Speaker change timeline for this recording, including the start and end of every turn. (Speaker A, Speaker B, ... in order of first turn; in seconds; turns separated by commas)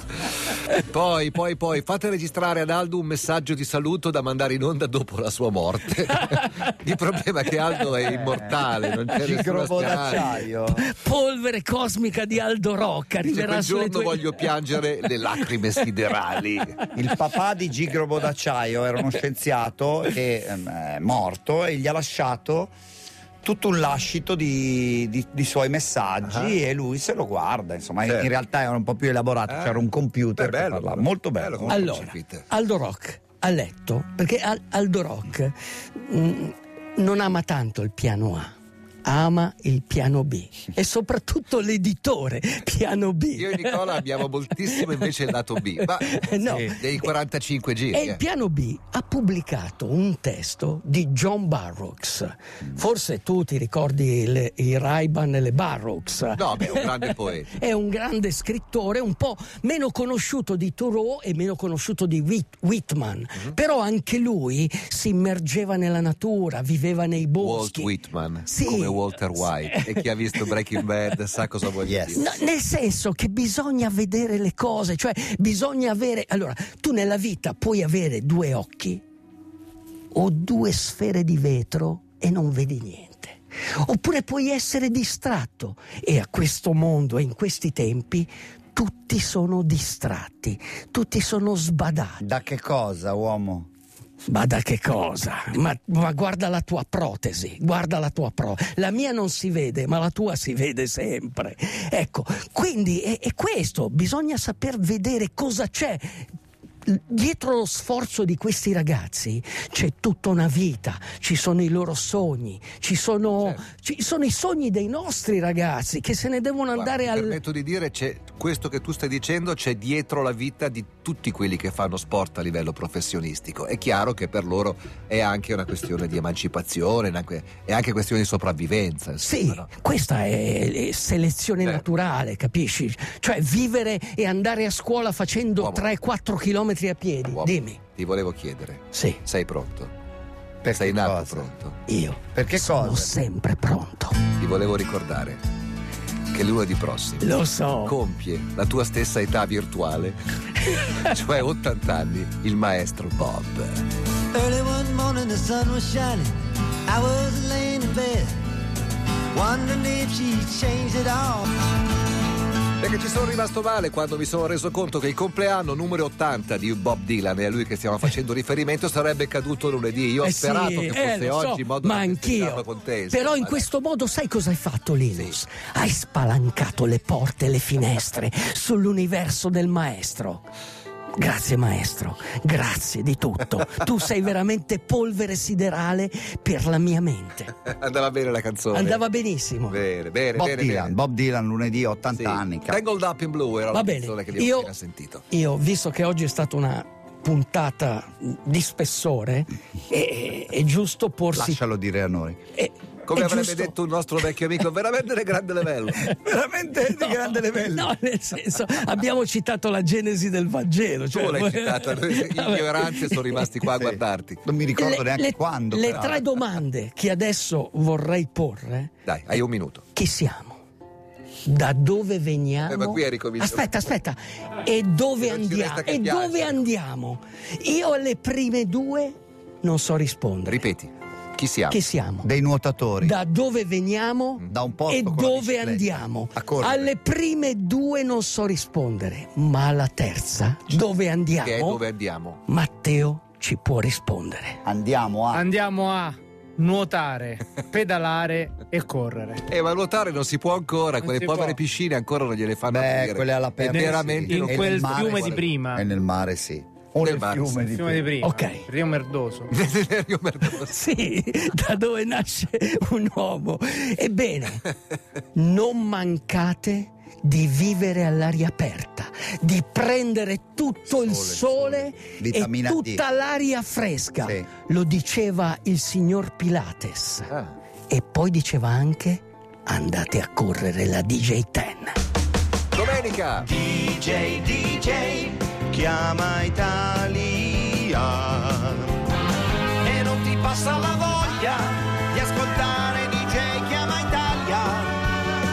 Speaker A: 0.5-0.7, Speaker B: 0.7-10.3, Speaker A: 6.1-6.8, Speaker A: 8.2-8.8, Speaker C: 9.2-10.8, Speaker A: 10.7-15.9, Speaker B: 13.2-16.8, Speaker C: 17.0-22.7, Speaker C: 23.4-31.8, Speaker B: 26.2-26.6, Speaker B: 28.1-28.3, Speaker B: 29.5-29.9, Speaker B: 30.4-32.5, Speaker A: 31.7-38.5, Speaker A: 39.0-44.1, Speaker B: 43.4-48.2, Speaker A: 44.6-45.1, Speaker A: 45.8-47.1, Speaker A: 47.9-67.9, Speaker B: 56.3-57.6, Speaker B: 67.4-72.3, Speaker A: 68.5-70.6, Speaker C: 71.9-72.2, Speaker A: 72.1-79.0, Speaker A: 80.1-92.2, Speaker C: 92.2-93.7, Speaker A: 94.3-106.3, Speaker A: 106.8-117.4, Speaker B: 116.7-129.7, Speaker A: 129.2-137.8, Speaker B: 135.6-135.9, Speaker B: 137.3-139.9, Speaker A: 138.9-139.2, Speaker C: 140.6-141.5, Speaker B: 140.7-141.8, Speaker A: 141.9-144.2, Speaker C: 142.3-143.2, Speaker B: 144.4-145.4, Speaker B: 146.3-147.3, Speaker A: 147.2-148.0, Speaker B: 147.8-150.2, Speaker A: 150.7-151.1, Speaker B: 150.9-153.8, Speaker D: 154.3-154.8, Speaker B: 154.5-155.6, Speaker D: 155.6-156.3, Speaker D: 156.9-158.3, Speaker B: 157.1-157.6, Speaker D: 159.3-161.6, Speaker B: 162.8-173.7, Speaker A: 170.2-180.5, Speaker A: 181.2-187.6, Speaker B: 187.7-189.0, Speaker A: 188.7-189.8, Speaker B: 189.7-191.0, Speaker C: 190.3-192.8, Speaker B: 192.1-195.2, Speaker A: 193.7-194.7, Speaker A: 195.3-201.6, Speaker C: 201.3-202.4, Speaker A: 202.6-203.8, Speaker B: 203.1-206.1, Speaker C: 206.0-207.9, Speaker A: 206.9-213.5, Speaker B: 211.1-214.4, Speaker C: 213.7-216.2, Speaker A: 214.8-218.9, Speaker B: 219.1-219.8, Speaker A: 219.9-220.6, Speaker A: 221.4-230.6, Speaker B: 222.7-223.7, Speaker B: 225.2-226.6, Speaker B: 230.5-231.8, Speaker A: 231.7-232.3, Speaker C: 232.2-233.2, Speaker A: 233.0-241.8, Speaker C: 234.5-236.9, Speaker B: 241.4-242.4, Speaker A: 242.5-244.6, Speaker C: 244.7-245.5, Speaker E: 245.3-249.4, Speaker B: 249.5-255.5, Speaker E: 251.0-251.6, Speaker C: 252.7-258.1, Speaker E: 253.6-255.8, Speaker B: 257.0-257.6, Speaker E: 257.7-259.5, Speaker A: 258.2-258.7, Speaker B: 259.5-260.8, Speaker A: 260.6-264.6, Speaker A: 265.3-277.3, Speaker C: 270.9-273.0, Speaker C: 274.2-274.5, Speaker A: 277.9-282.0, Speaker B: 282.7-283.5, Speaker D: 283.5-288.8, Speaker D: 289.8-295.0